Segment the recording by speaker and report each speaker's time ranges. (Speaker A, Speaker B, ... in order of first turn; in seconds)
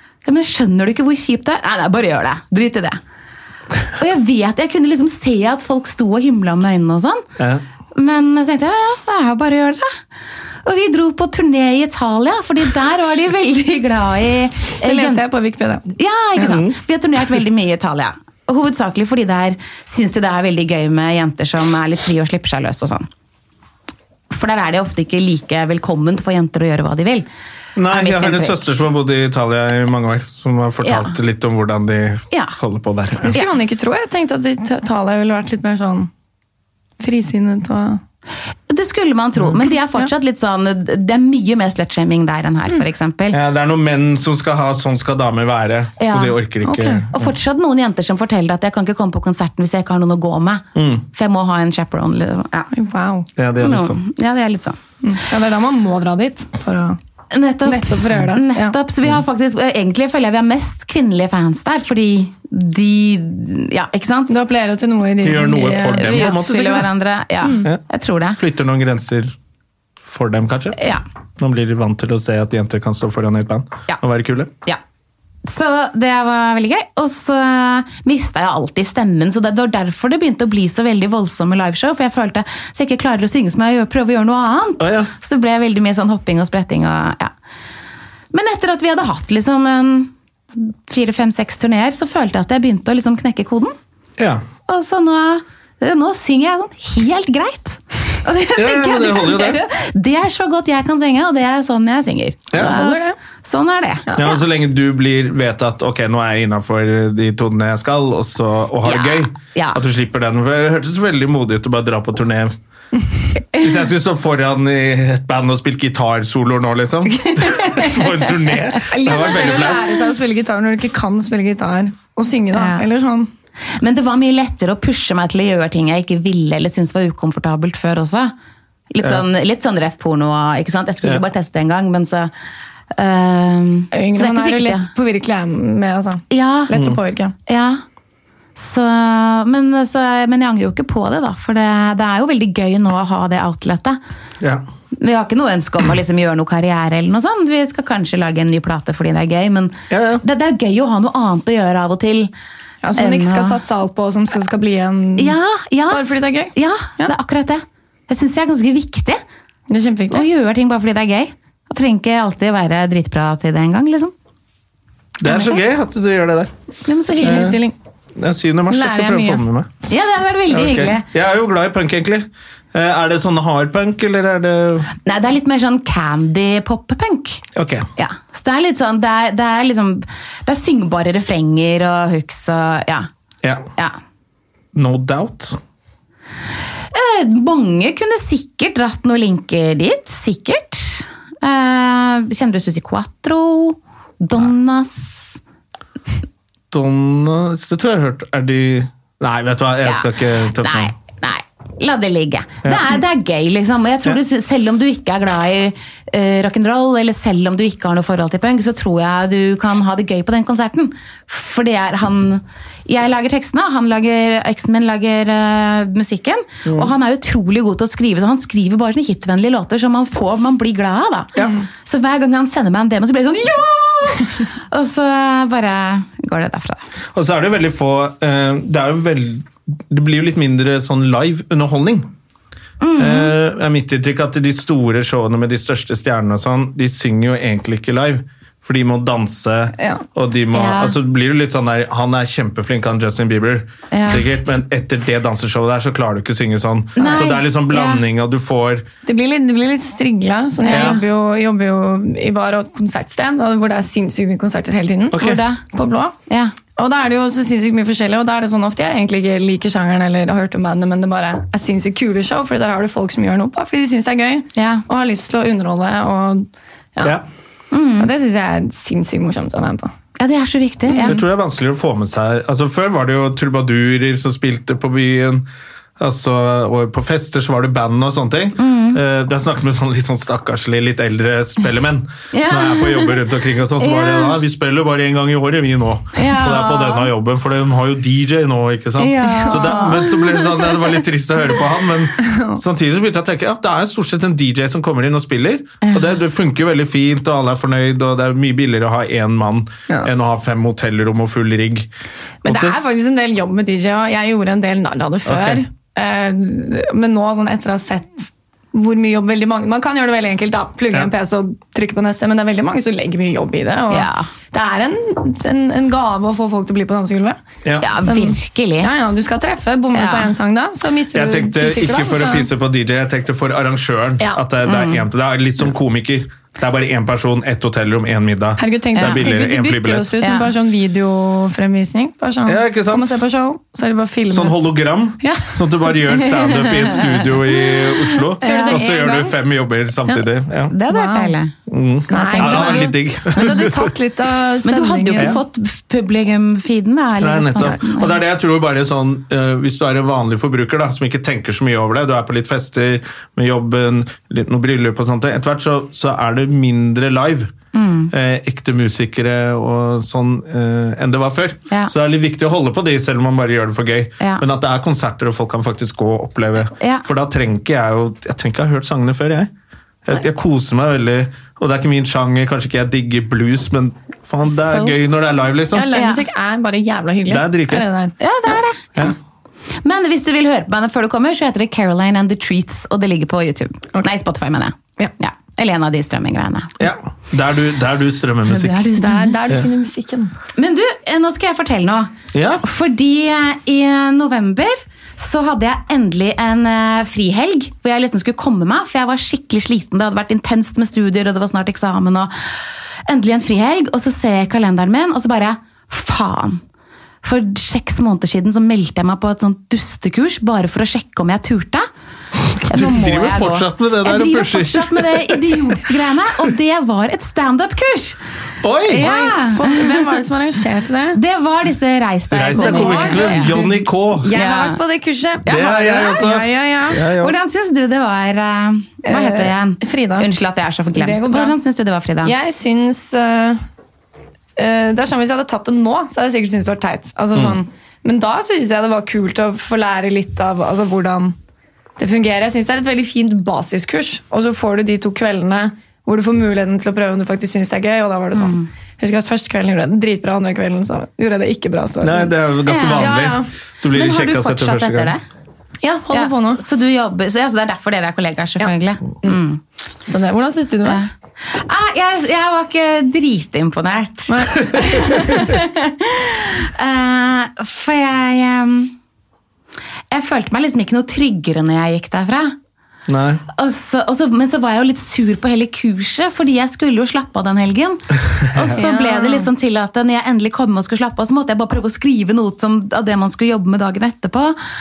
Speaker A: 0.2-3.0, 4.0-7.2, 7.9-9.9, 10.6-15.2, 15.9-23.1, 24.3-27.3, 27.9-28.8, 30.8-31.1, 32.3-32.5, 38.7-43.4, 46.0-46.4, 47.1-52.7, 53.6-54.8, 57.3-64.3, 65.6-68.4, 70.8-71.0, 75.4-87.3, 88.3-93.7, 94.7-104.3, 108.8-109.8, 119.0-120.0, 122.5-122.8, 123.8-128.3, 128.9-132.3, 132.9-134.9, 136.3-136.7, 137.5-137.8, 138.6-144.0, 145.0-152.3, 153.0-153.6, 155.2-159.2, 160.1-164.1, 165.2-165.6, 166.8-167.6, 169.9-171.1, 175.0-177.4, 178.0-183.1, 186.9-195.4, 199.8-226.8, 232.8-233.3, 240.5-240.9, 243.9-244.2, 247.0-248.0, 250.6-251.0, 255.1-255.6, 256.3-256.5, 264.5-264.8, 267.7-268.1, 270.2-271.2, 278.6-279.0, 282.3-284.4, 286.1-287.1, 289.0-291.0, 295.8-296.1, 313.9-314.3, 317.8-318.9, 319.9-320.3, 324.6-325.0, 329.0-329.3, 330.2-330.5, 338.4-339.3, 340.7-341.5, 342.1-342.9, 344.6-348.2, 357.7-358.1, 364.2-364.4, 366.8-367.0, 374.4-375.0, 375.9-376.2, 378.2-379.1, 379.8-386.9, 388.5-389.4, 390.6-402.3, 403.1-406.6, 407.2-411.9, 412.6-418.2, 418.9-420.1, 421.1-423.7, 424.3-424.8, 426.9-432.3, 448.3-448.7, 452.6-455.2, 456.1-459.6, 460.8-468.9, 470.1-472.5, 473.5-484.6
Speaker B: 7.4-7.6, 16.4-16.7, 27.8-33.3, 43.3-47.3, 50.8-51.0, 53.4-54.0, 65.2-66.8, 68.3-69.3, 70.0-70.8, 71.4-74.5, 84.8-85.1, 94.2-94.4, 98.5-99.6, 102.5-102.8, 104.1-112.5, 113.5-119.9, 136.7-137.0, 149.9-150.2, 165.2-166.5, 167.2-167.6, 168.2-169.7, 170.5-174.9, 177.5-177.9, 183.4-183.7, 184.7-185.6, 196.7-200.9, 202.6-202.9, 216.7-216.9, 227.1-232.1, 233.0-248.8, 250.7-251.0, 255.1-255.4, 270.9-275.4, 276.0-301.9, 302.4-302.9, 305.2-305.6, 321.1-330.2, 332.4-333.2, 334.3-340.7, 341.7-343.9, 345.2-345.4, 347.2-357.5, 358.1-369.5, 370.1-375.9, 377.3-377.9, 386.8-388.9, 392.3-392.6, 412.6-416.5, 418.6-419.0, 422.3-424.3, 425.4-427.3, 452.0-455.1, 473.1-473.4, 478.5-478.8
Speaker C: 14.8-15.8, 33.2-36.1, 37.0-38.0, 46.6-47.0, 52.7-53.3, 55.0-57.0, 57.6-58.8, 64.3-66.4, 102.5-103.2, 118.9-123.3, 133.9-137.3, 152.8-155.3, 155.9-157.1, 159.7-160.2, 167.1-167.7, 168.7-169.4, 239.8-240.0, 249.0-255.2, 255.7-256.1, 256.8-267.1, 268.0-269.9, 270.9-271.2, 289.3-289.8, 292.2-292.6, 302.4-317.4, 318.0-322.5, 328.6-334.6, 335.2-335.5, 338.4-339.2, 340.9-341.3, 342.1-345.4, 375.7-378.1, 389.0-390.3, 419.0-421.2, 422.5-427.0, 429.0-430.3, 430.9-431.5, 432.2-433.6, 434.6-441.3, 442.0-452.3, 452.9-453.5, 455.8-456.6, 460.1-461.0, 464.3-465.4, 478.7-479.5